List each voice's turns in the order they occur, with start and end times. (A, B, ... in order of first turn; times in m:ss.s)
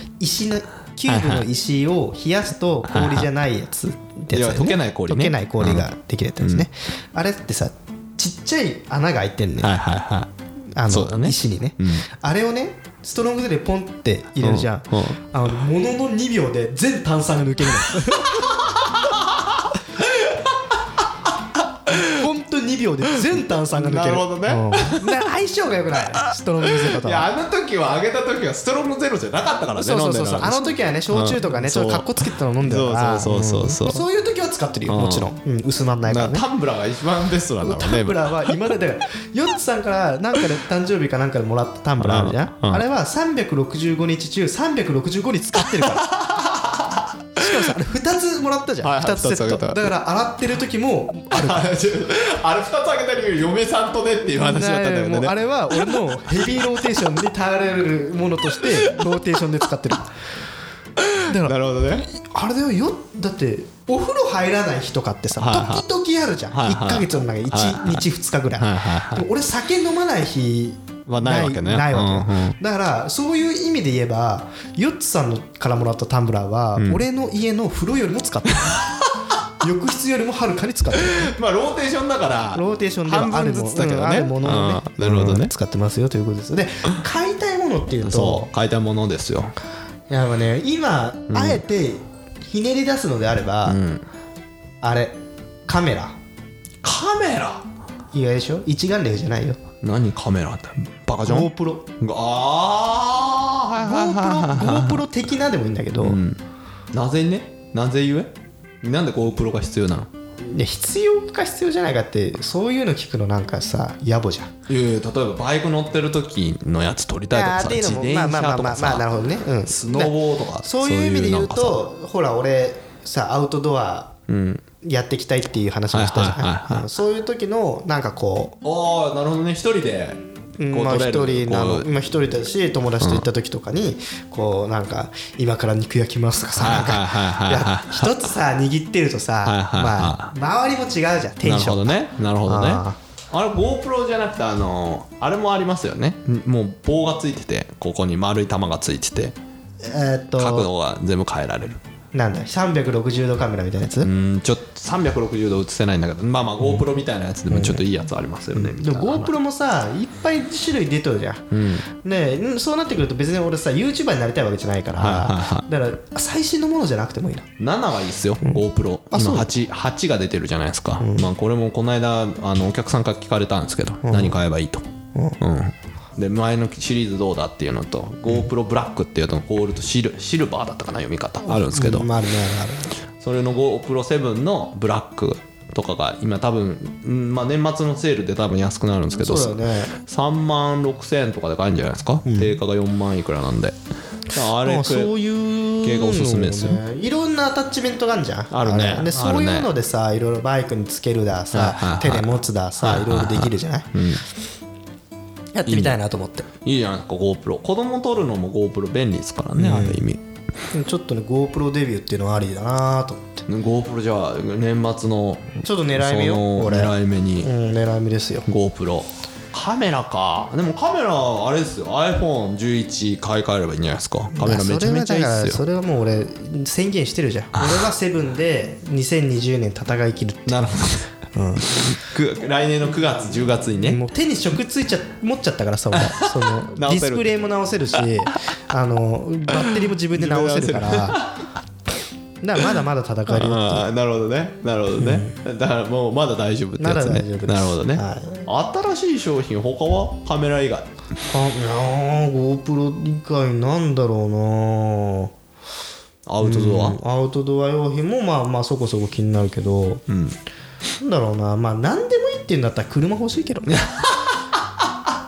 0:00.2-0:09.7 A
0:01.1-0:01.5 B
0:02.9-0:03.3 B
0:04.3-0:05.9 B
0:06.4-0:06.7 B
0:09.6-0:10.3 B
0:10.7-0:18.6 A
0:10.9-0:12.0 B
0:14.4-0:15.2 B
0:18.4-0:20.6 B
0:21.9-0:22.1 B
0:22.0-0:27.3 A
0:23.3-0:25.2 B
0:26.7-0:34.0 B
0:29.8-0:36.4 A
0:34.9-0:35.3 B
0:36.1-0:38.5 B
0:37.6-0:46.1 A
0:42.0-0:42.8 B
0:45.6-0:47.7 B
0:47.4-0:51.7 A
0:48.8-0:49.9 B
0:51.3-0:56.8 B
0:54.3-1:00.1 A
0:58.6-0:58.9 B
1:01.0-1:02.1 B
1:01.2-1:18.8 A
1:05.4-1:05.8 B
1:06.5-1:08.0 B
1:08.6-1:09.2 B
1:11.1-1:12.6 B
1:16.8-1:17.0 B
1:18.6-1:19.1 B
1:19.6-1:21.4 A
1:21.0-1:25.5 B
1:22.5-1:28.5 A
1:28.0-1:29.6 B
1:30.1-1:33.8 A
1:31.3-1:31.6 B
1:33.7-1:34.0 B
1:34.8-1:35.2 A
1:35.7-1:36.2 A
1:36.8-1:37.7 B
1:38.1-1:39.6 A
1:39.8-1:45.1 B
1:41.2-1:41.9 A
1:43.8-1:46.2 A
1:46.0-1:46.4 B
1:46.9-1:50.1 B
1:50.4-1:54.5 A
1:54.7-1:59.1 B
1:57.3-2:04.2 A
1:59.7-2:01.8 B
2:04.3-2:04.6 B
2:04.8-2:08.6 A
2:05.9-2:06.9 B
2:08.6-2:10.2 B
2:10.6-2:23.0 A
2:10.7-2:11.9 B
2:13.0-2:13.3 B
2:16.6-2:18.2 B
2:19.4-2:20.3 B
2:21.4-2:29.4 B
2:29.8-2:30.7 A
2:30.4-2:31.8 B
2:32.1-2:34.1 A
2:34.0-2:39.3 B
2:37.5-2:37.8 A
2:38.5-2:47.5 A
2:41.5-2:41.8 B
2:45.0-2:45.7 B
2:47.6-2:54.9 B
2:48.4-2:49.5 A
2:51.0-2:51.3 A
2:54.0-2:54.4 A
2:55.4-3:02.1 B
3:01.5-3:03.0 A
3:03.2-3:13.8 B
3:09.2-3:10.0 A
3:12.2-3:12.6 A
3:14.3-3:15.1 B
3:14.6-3:23.9 A
3:15.8-3:16.8 B
3:18.5-3:19.7 B
3:21.5-3:24.2 B
3:25.5-3:26.5 A
3:25.7-3:26.0 B
3:26.6-3:30.2 B
3:29.6-3:30.0 A
3:30.7-3:33.4 A
3:33.5-3:37.5 B
3:35.6-3:38.5 A
3:38.5-3:45.6 B
3:44.4-3:50.6 A
3:47.6-3:47.9 B
3:50.5-3:51.1 B
3:51.3-3:51.8 A
3:51.8-3:54.0 B
3:53.8-4:01.3 A
3:55.9-3:57.3 B
3:59.5-4:01.4 B
4:02.4-4:03.9 A
4:03.3-4:10.9 B
4:05.0-4:05.4 A
4:06.8-4:08.5 A
4:11.3-4:15.3 A
4:16.3-4:17.0 B
4:16.4-4:20.0 A
4:20.1-4:20.4 B
4:21.0-4:23.9 A
4:23.7-4:24.4 B